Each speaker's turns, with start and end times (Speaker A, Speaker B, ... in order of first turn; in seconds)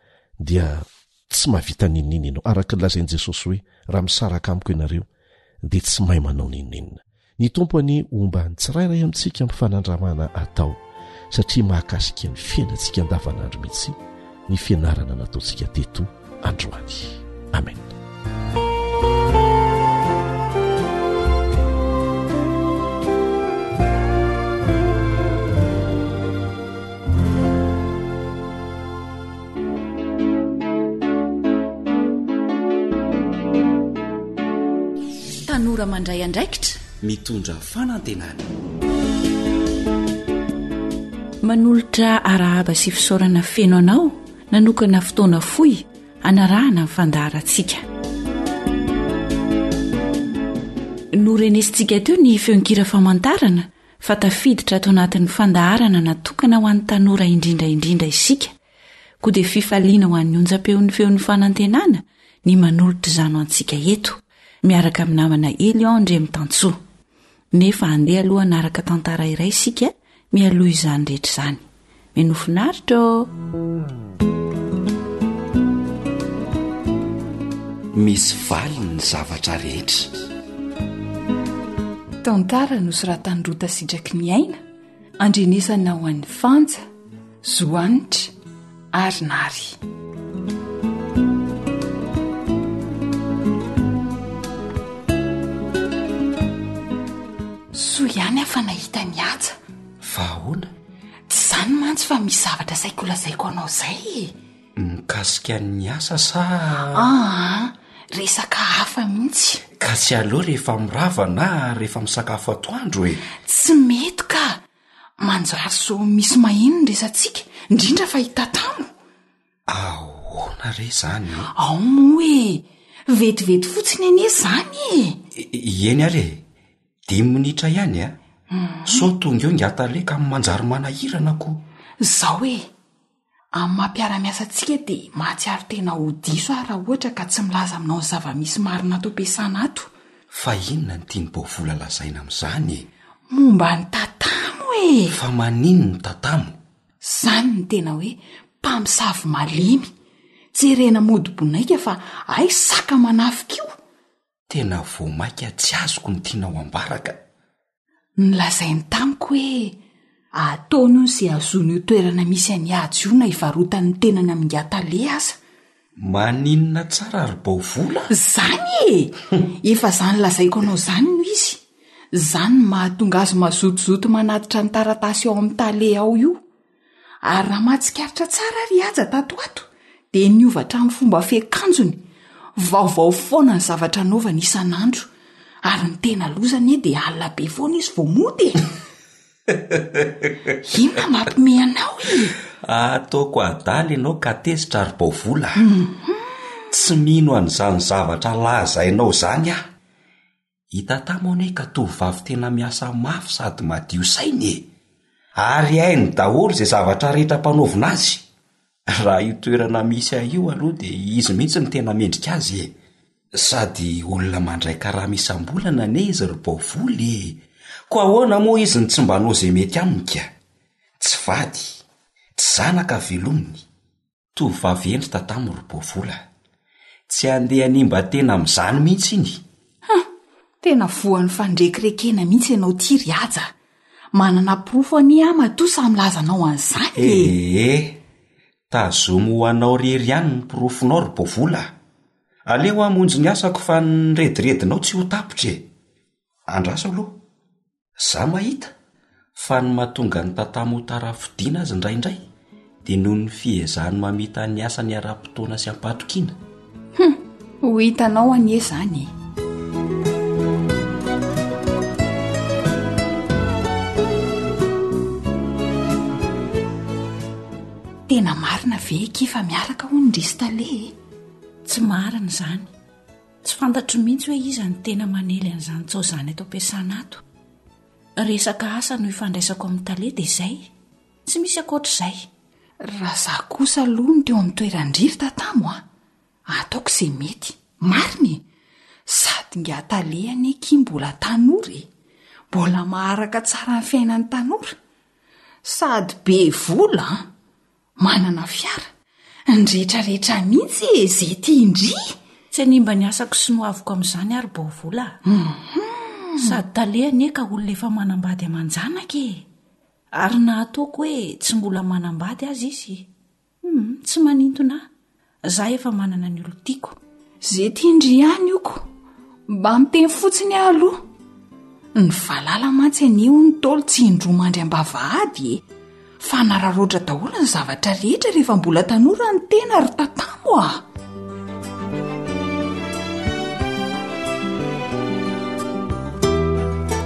Speaker A: 0.4-5.1, 5.6-17.9
Speaker B: 35.4-36.8, 41.4-47.8, 51.1-58.5, 59.2-66.8, 67.5-71.6, 72.1-73.3, 271.6-272.7, 273.4-277.2, 278.2-280.7, 281.2-282.3, 302.5-305.2, 306.4-309.4, 310.1-313.1, 313.6-314.9, 315.4-317.0
Speaker C: 37.0-38.5, 77.9-80.1, 100.0-100.7, 104.8-107.1, 109.8-113.2, 119.7-121.5, 125.3-126.4, 127.1-128.2, 128.8-131.6, 140.3-142.9, 145.1-146.5, 154.5-157.2, 166.0-168.1, 189.7-190.3, 192.6-195.6, 196.7-199.6, 200.7-204.7, 205.3-208.2, 208.9-212.7, 213.3-220.3, 221.0-221.8, 222.3-223.6, 224.3-226.2, 227.1-229.4, 236.9-238.0, 238.7-241.7, 242.4-245.7, 246.5-247.2, 248.0-248.7, 249.3-252.2, 252.8-256.4
Speaker D: 82.2-84.6, 85.2-86.8, 87.4-88.3, 88.9-89.8, 97.7-99.5, 101.3-104.3, 106.9-109.6, 113.4-114.6, 115.2-118.9, 121.5-125.2, 128.5-129.1, 132.0-132.7, 133.5-139.9, 143.3-145.2, 147.0-149.9, 150.5-153.7, 158.2-159.8, 160.3-165.4, 168.1-171.6, 172.1-176.4, 177.2-182.0, 182.6-185.1, 185.6-188.7, 190.6-192.3, 195.6-196.3, 230.6-233.5, 234.1-237.3, 256.9-259.1, 268.1-270.9, 282.8-285.8, 286.5-288.4, 289.1-291.9, 292.5-294.7, 295.6-297.3, 298.0-298.9, 299.5-302.1, 305.2-306.6, 317.4-318.9, 319.5-321.1, 321.9-325.6, 326.2-330.9